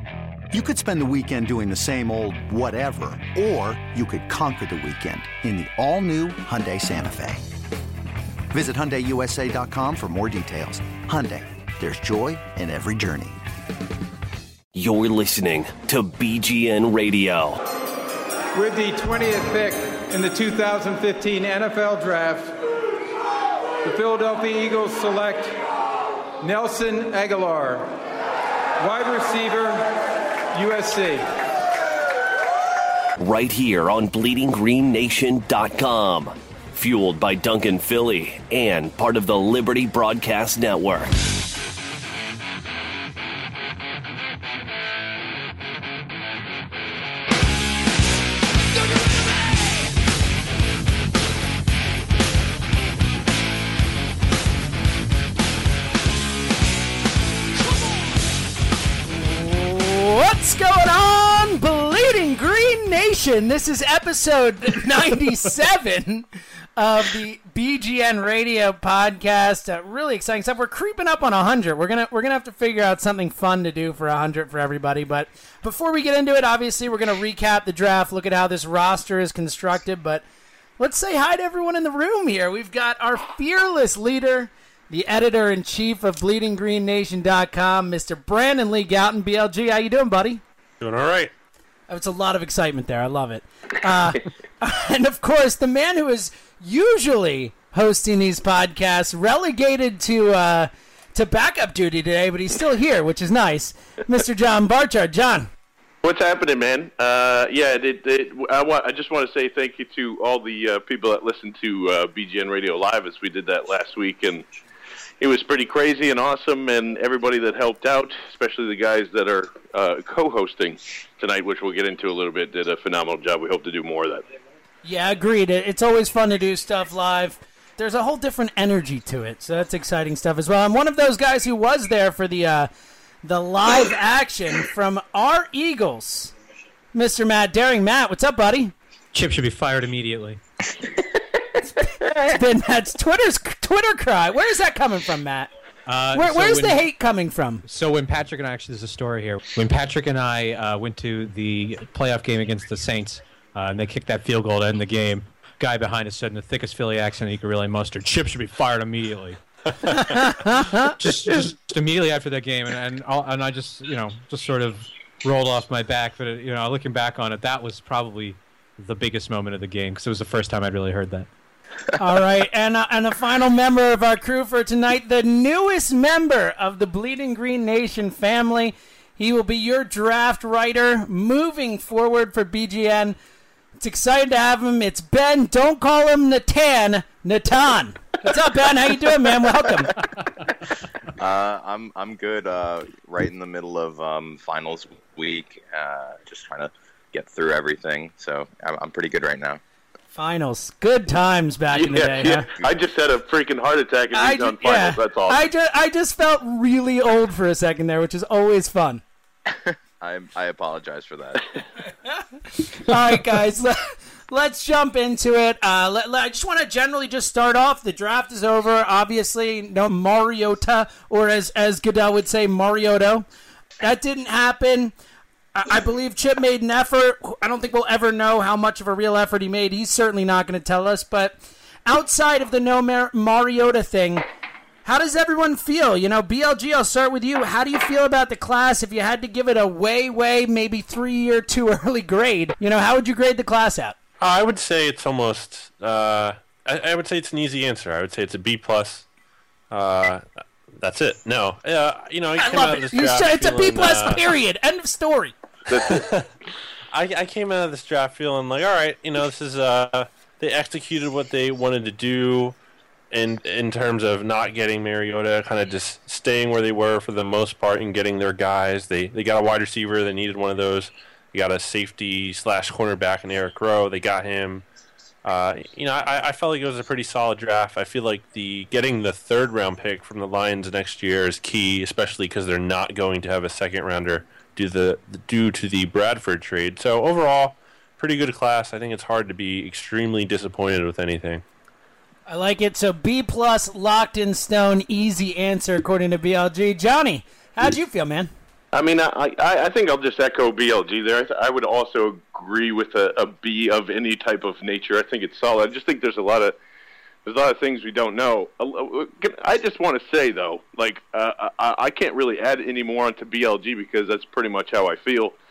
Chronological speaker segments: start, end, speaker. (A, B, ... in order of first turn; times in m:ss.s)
0:00.5-0:07.5 A
0:08.5-0:13.4 A
0:14.7-0:17.6 B
0:18.5-0:22.6 C
0:23.8-0:25.6 C
0:26.4-0:28.0 C
0:28.8-0:30.0 C
0:30.5-0:31.3 C
0:33.2-0:41.1 B
0:59.2-1:20.2 D
1:20.8-1:30.4 D
1:30.8-1:31.3 E
1:31.9-1:45.5 D
1:46.0-1:54.5 F
1:55.2-2:04.3 F
2:04.8-2:12.7 D
2:13.2-2:16.3 D
2:16.9-2:18.7 D
2:19.1-2:20.4 G
2:21.8-2:25.5 D
2:25.9-2:26.8 G
2:26.1-2:27.6 D
2:27.6-2:51.3 G
2:40.0-2:40.9 D
2:52.0-3:03.2 D
3:03.8-3:10.0 D
3:11.2-3:19.6 H
3:20.1-3:22.6 D
3:21.7-3:25.5 F
3:24.1-3:29.0 D
3:29.5-3:31.5 H
3:32.6-3:43.3 D
3:43.8-3:44.9 D
3:45.5-3:54.3 D
3:54.8-4:04.0 D
4:04.2-4:09.1 E
4:09.7-4:10.2 E
4:10.8-4:14.3 E
4:12.4-4:15.4 D
4:15.7-4:16.0 F
4:15.8-4:16.3 E
4:16.9-4:22.6 E
4:23.1-4:34.6 E
4:35.2-4:51.4 E
4:52.3-4:58.3 D
4:58.7-5:06.6 F
5:07.2-5:15.4 F